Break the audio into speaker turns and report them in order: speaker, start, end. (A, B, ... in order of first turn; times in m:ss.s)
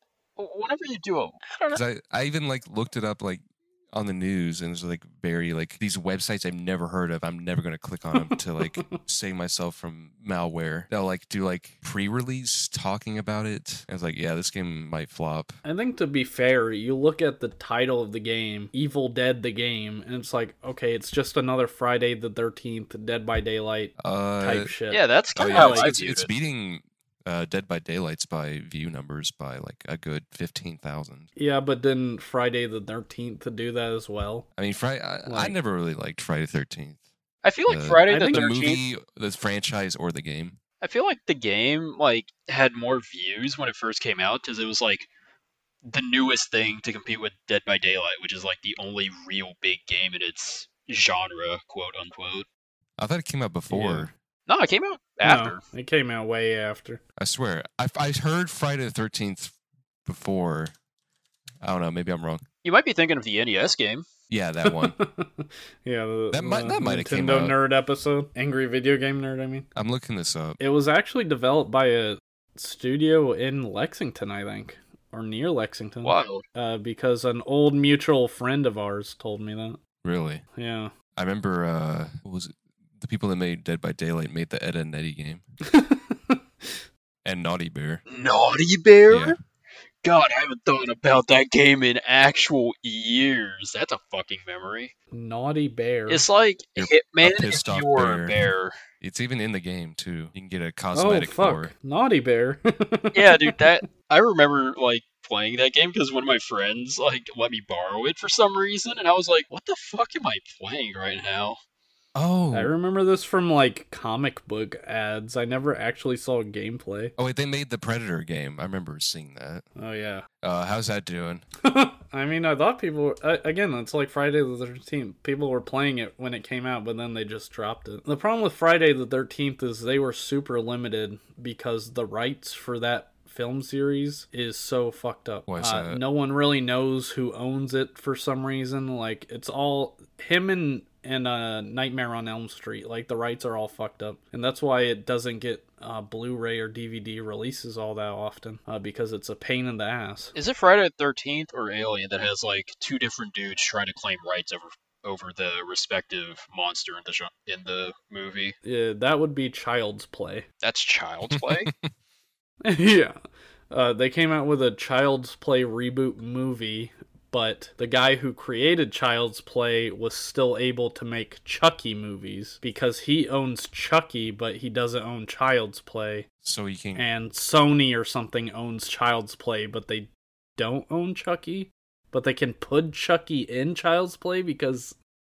0:00.4-0:01.8 A
0:01.7-0:15.6 B
0:08.1-0:09.0 C
0:15.6-0:25.9 C
0:24.0-0:24.7 B
0:24.9-0:26.4 A
0:25.4-0:31.3 B
0:31.4-0:34.4 C
0:34.6-0:37.0 B
0:35.2-0:35.6 C
0:37.4-0:38.8 A
0:37.7-0:40.6 B
0:38.1-0:38.5 C
0:40.8-0:45.1 A
0:45.9-0:52.4 A
0:53.0-0:54.1 B
0:53.7-0:54.1 C
0:54.5-0:55.6 A
0:55.2-0:57.0 C
0:57.2-0:59.5 B
1:00.1-1:00.7 B
1:01.6-1:02.4 B
1:02.6-1:04.1 A
1:04.3-1:05.0 B
1:04.6-1:09.7 C
1:06.3-1:07.6 B
1:09.7-1:10.6 B
1:10.6-1:19.8 C
1:16.0-1:16.4 A
1:20.0-1:20.4 B
1:20.6-1:20.9 C
1:21.2-1:25.4 B
1:25.6-1:26.7 C
1:27.2-1:28.0 B
1:28.1-1:29.4 A
1:29.1-1:29.4 B
1:30.0-1:34.9 A
1:35.1-1:36.2 C
1:36.1-1:38.8 A
1:36.8-1:38.4 B
1:39.0-1:41.7 B
1:40.9-1:43.6 C
1:43.1-1:51.6 A
1:52.1-1:52.7 B
1:52.5-1:57.1 C
1:57.2-1:59.6 B
1:59.8-2:00.2 C
2:00.4-2:01.4 B
2:01.6-2:30.3 C
2:15.5-2:16.0 B
2:30.4-2:38.6 A
2:38.6-2:40.4 C
2:40.6-2:41.7 A
2:41.3-2:41.9 B
2:42.6-2:43.2 C
2:43.7-2:56.2 C
2:56.4-2:57.0 B
2:56.9-3:05.0 C